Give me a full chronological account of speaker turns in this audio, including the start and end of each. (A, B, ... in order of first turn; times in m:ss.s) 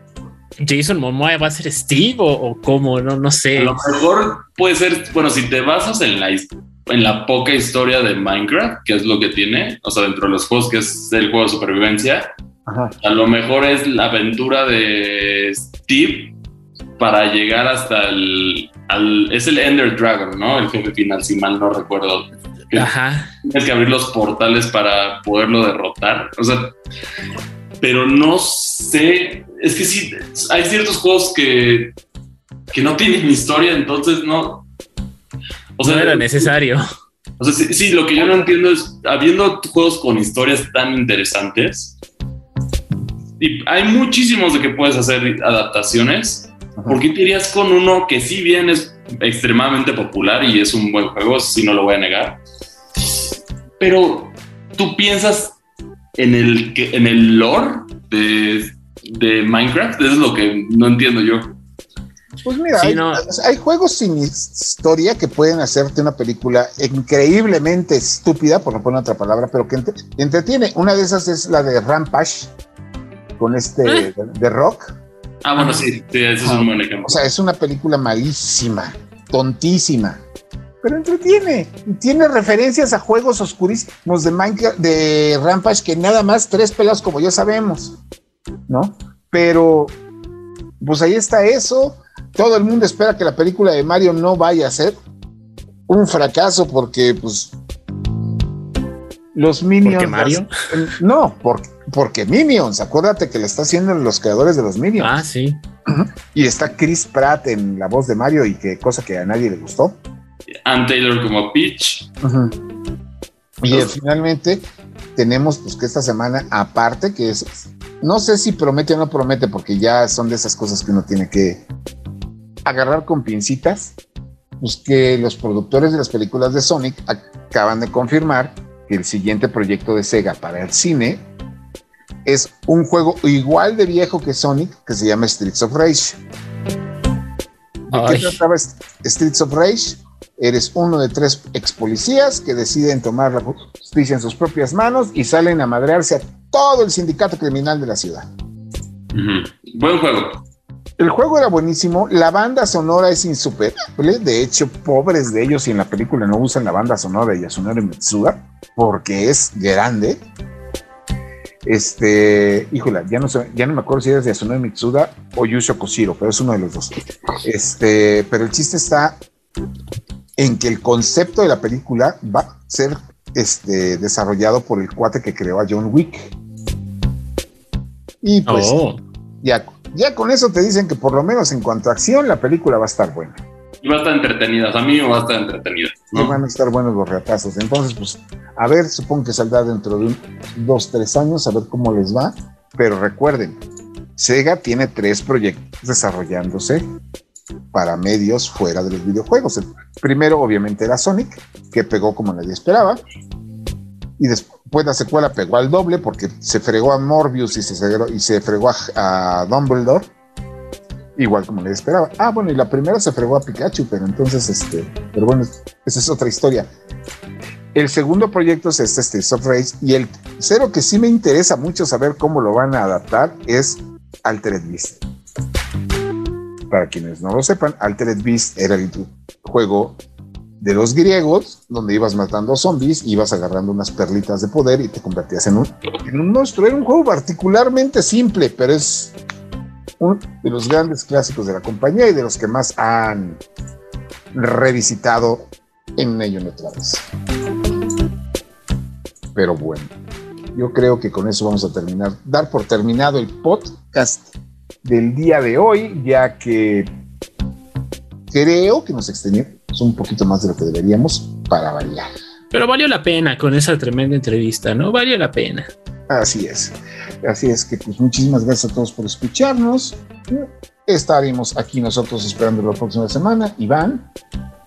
0:00.6-0:03.8 A
0:03.5-0:12.3 B
0:12.7-0:12.9 C
0:13.0-0:16.3 B
0:17.0-0:22.9 B
0:22.7-0:23.3 A
0:23.4-0:26.7 B
0:27.8-0:31.9 B
0:32.7-0:34.6 B
0:35.8-0:36.5 B
0:35.8-0:36.8 A
0:37.4-0:42.0 B
0:43.4-0:52.4 B
0:53.8-0:55.6 B
0:56.2-1:01.6 B
1:02.4-1:12.5 C
1:02.7-1:03.2 A
1:13.4-1:15.0 C
1:15.4-1:17.2 B
1:16.4-1:20.2 C
1:20.8-1:28.0 C
1:28.7-1:29.9 C
1:30.8-1:35.0 C
1:35.9-1:37.5 C
1:39.3-1:45.2 C
1:39.8-1:40.5 A
1:45.0-1:45.6 A
1:45.9-1:50.0 C
1:50.6-1:52.1 B
1:52.2-1:52.6 C
1:53.6-1:54.6 C
1:55.2-2:01.6 C
2:02.6-2:04.0 C
2:04.6-2:11.2 C
2:12.2-2:16.2 C
2:17.9-2:28.3 C
2:17.9-2:18.4 A
2:29.1-2:30.4 B
2:31.0-2:40.2 C
2:41.6-2:49.2 C
2:50.4-2:56.3 C
2:58.2-2:58.8 C
2:58.4-2:59.0 A
2:59.4-3:03.4 C
3:03.8-3:06.4 B
3:06.1-3:13.6 C
3:14.2-3:16.8 C
3:17.7-3:23.0 C
3:24.2-3:30.0 C
3:31.2-3:36.7 C
3:37.7-3:45.0 C
3:46.7-3:50.0 C
3:50.6-3:59.1 C
4:00.0-4:03.4 C
4:04.3-4:07.0 C
4:09.3-4:09.9 C
4:10.5-4:14.3 C
4:14.8-4:16.9 C
4:18.3-4:22.1 C
4:22.5-4:25.7 A
4:26.1-4:34.1 C